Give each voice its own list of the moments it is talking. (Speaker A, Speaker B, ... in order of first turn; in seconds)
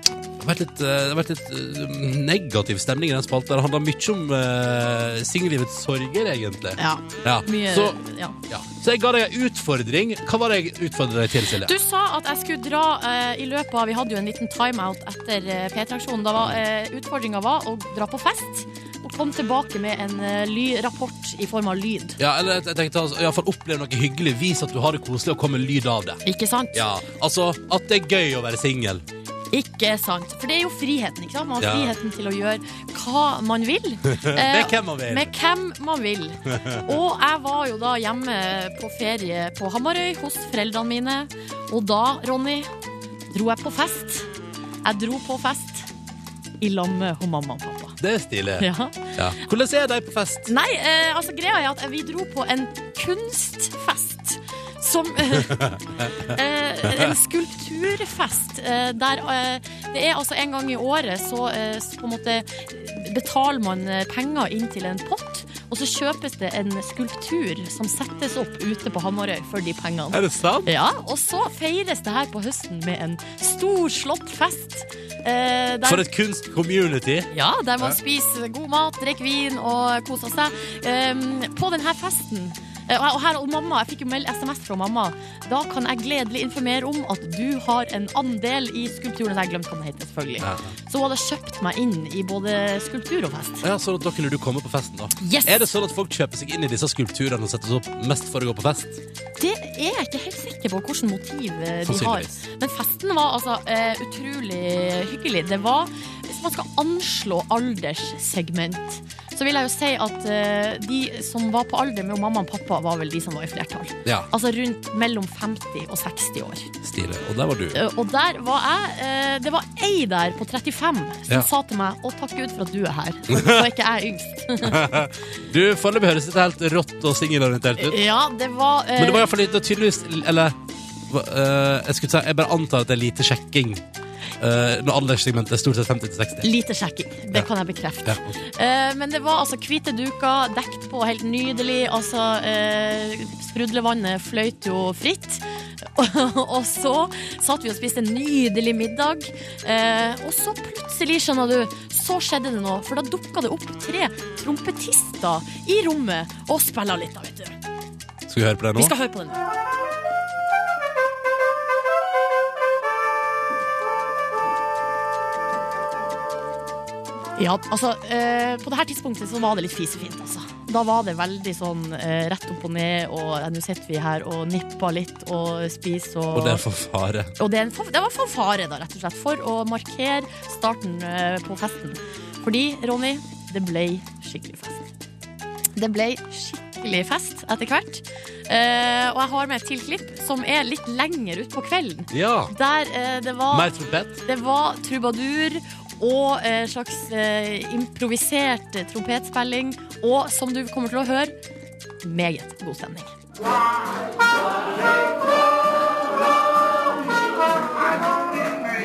Speaker A: 0.4-11.7, 22.2-26.2, 26.7-29.0, 31.6-31.9, 34.0-35.3, 36.5-36.9, 48.0-50.5, 55.3-56.3, 56.8-57.1, 70.1-70.7, 75.8-78.0, 90.4-90.8, 93.6-99.0, 101.8-102.4, 116.8-117.8, 123.3-123.7, 124.6-128.0, 129.0-130.6, 131.1-133.8, 134.4-136.5, 138.0-138.3, 158.3-158.9, 176.3-177.3, 192.1-192.5, 193.5-194.2
Speaker B: 6.8-8.3, 11.6-22.2, 26.2-26.8, 29.5-42.7, 43.3-44.3, 44.8-45.9, 46.6-48.0, 48.6-49.2, 50.5-55.6, 56.2-76.0, 77.3-93.6, 95.2-95.6, 99.4-116.7, 117.7-125.0, 127.8-129.3, 136.4-157.6, 158.8-159.4, 167.3-176.6, 177.4-184.9, 185.8-193.7, 194.2-201.3, 202.0-203.1